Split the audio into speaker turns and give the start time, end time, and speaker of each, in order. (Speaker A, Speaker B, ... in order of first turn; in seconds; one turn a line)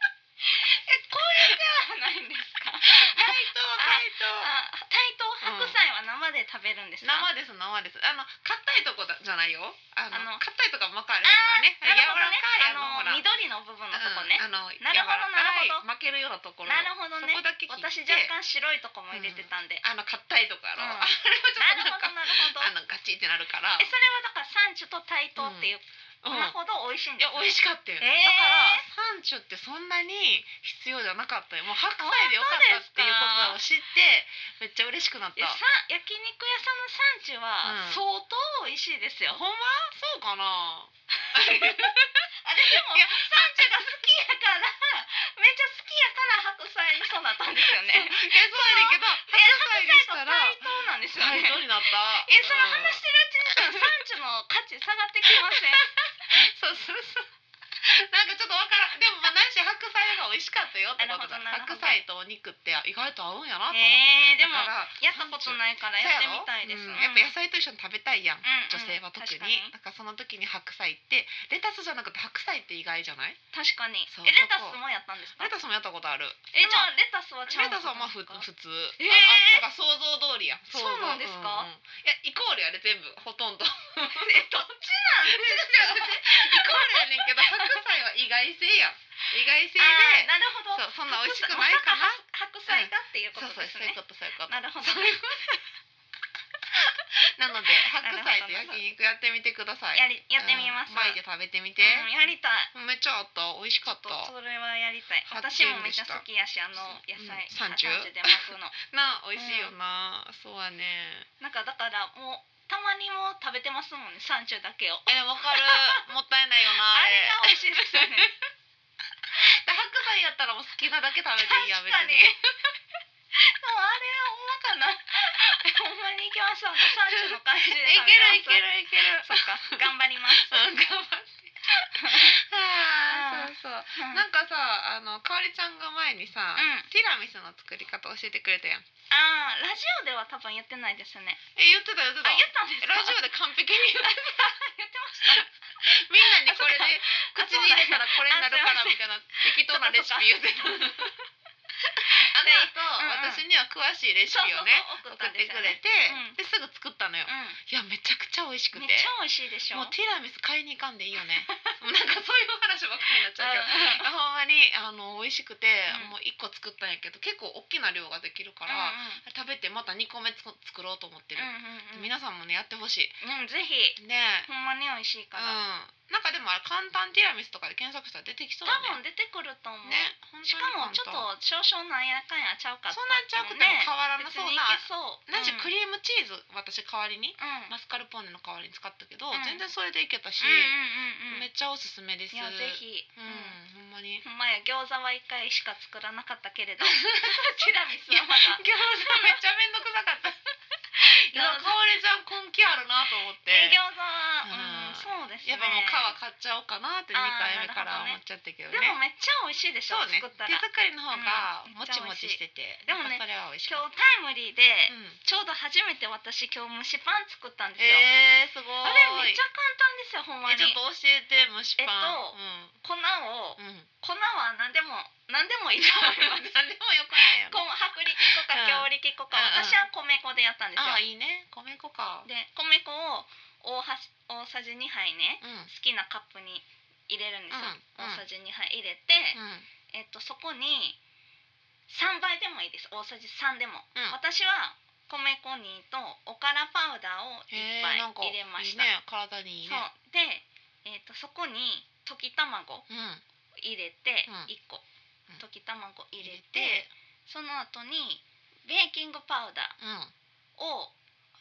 Speaker A: 0.4-7.3
Speaker B: 1.3-1.6
Speaker B: 2.8-4.5
Speaker B: 5.4-5.8
Speaker B: 7.0-13.2
Speaker A: 10.1-10.4
Speaker A: 11.2-15.8
Speaker B: 13.9-18.3
Speaker A: 16.6-19.8
Speaker B: 19.1-23.9
Speaker A: 20.8-22.7
Speaker A: 23.8-28.8
Speaker B: 25.4-25.7
Speaker B: 26.2-26.6
Speaker B: 27.2-35.6
Speaker A: 32.0-33.6
Speaker A: 35.4-39.4
Speaker B: 37.6-38.0
Speaker B: 39.3-44.0
Speaker A: 41.2-41.9
Speaker A: 42.4-55.9
Speaker B: 47.6-53.9
Speaker B: 55.3-57.3
Speaker B: 57.8-73.4
Speaker A: 61.0-62.0
Speaker A: 63.7-67.3
Speaker A: 68.4-69.7
Speaker A: 73.5-75.5
Speaker B: 74.1-74.8
Speaker B: 75.4-76.9
Speaker A: 76.5-78.5
Speaker B: 77.5-95.4
Speaker A: 79.0-79.6
Speaker A: 80.7-81.7
Speaker A: 84.1-87.8
Speaker A: 89.8-95.6
Speaker B: 96.7-102.1
Speaker A: 98.0-98.8
Speaker A: 99.9-101.2
Speaker A: 101.8-102.7
Speaker B: 102.7-104.3
Speaker A: 103.8-108.8
Speaker B: 105.3-106.2
Speaker B: 106.7-111.3
Speaker A: 109.4-109.7
Speaker A: 111.4-116.0
Speaker B: 115.1-118.3
Speaker A: 116.9-118.3
Speaker B: 119.3-122.4
Speaker A: 121.4-122.4
Speaker A: 123.3-130.8
Speaker B: 126.9-138.8
Speaker A: 131.7-132.4
Speaker A: 133.1-134.2
Speaker A: 136.6-136.9
Speaker A: 139.1-141.4
Speaker B: 141.6-144.5
Speaker A: 142.2-143.2
Speaker A: 144.0-151.2
Speaker B: 145.2-151.1
Speaker A: 151.8-153.4
Speaker B: 152.1-159.1
Speaker A: 154.3-156.4
Speaker A: 157.2-157.6
Speaker A: 158.7-159.9
Speaker B: 159.7-173.2
Speaker A: 163.3-164.1
Speaker A: 168.7-169.2
Speaker A: 171.3-172.1
Speaker A: 173.2-175.6
Speaker B: 174.0-174.5
Speaker B: 175.3-179.0
Speaker A: 178.6-185.7
Speaker B: 179.8-181.3
Speaker B: 182.9-190.7
Speaker A: 187.4-187.7
Speaker A: 189.3-189.6
Speaker A: 190.4-191.5
Speaker B: 191.3-194.2
Speaker A: 192.3-193.6
Speaker A: 194.2-199.4
Speaker B: 196.8-197.5
Speaker B: 198.1-200.4
Speaker A: 201.0-201.7
Speaker B: 201.0-203.8
Speaker A: 203.4-206.1
Speaker B: 204.4-209.0
Speaker A: 207.1-208.2
Speaker A: 208.7-218.1
Speaker B: 209.9-213.8
Speaker B: 214.9-215.2
Speaker B: 217.8-219.4
Speaker A: 218.8-220.8
Speaker B: 220.4-222.8
Speaker A: 221.8-226.6
Speaker B: 223.6-223.9
Speaker B: 225.8-227.6
Speaker A: 227.2-231.0
Speaker B: 228.2-229.8
Speaker B: 230.8-232.3
Speaker A: 232.2-239.4
Speaker B: 235.4-235.7
Speaker B: 237.5-238.2
Speaker B: 239.3-239.7
Speaker A: 239.9-241.0
Speaker A: 241.9-248.9
Speaker B: 247.5-249.8
Speaker A: 249.6-252.8
Speaker B: 252.9-253.2
Speaker A: 253.6-254.8
Speaker B: 254.2-254.5
Speaker A: 255.4-259.8
Speaker B: 256.2-256.9
Speaker B: 259.8-260.1
Speaker A: 260.6-260.9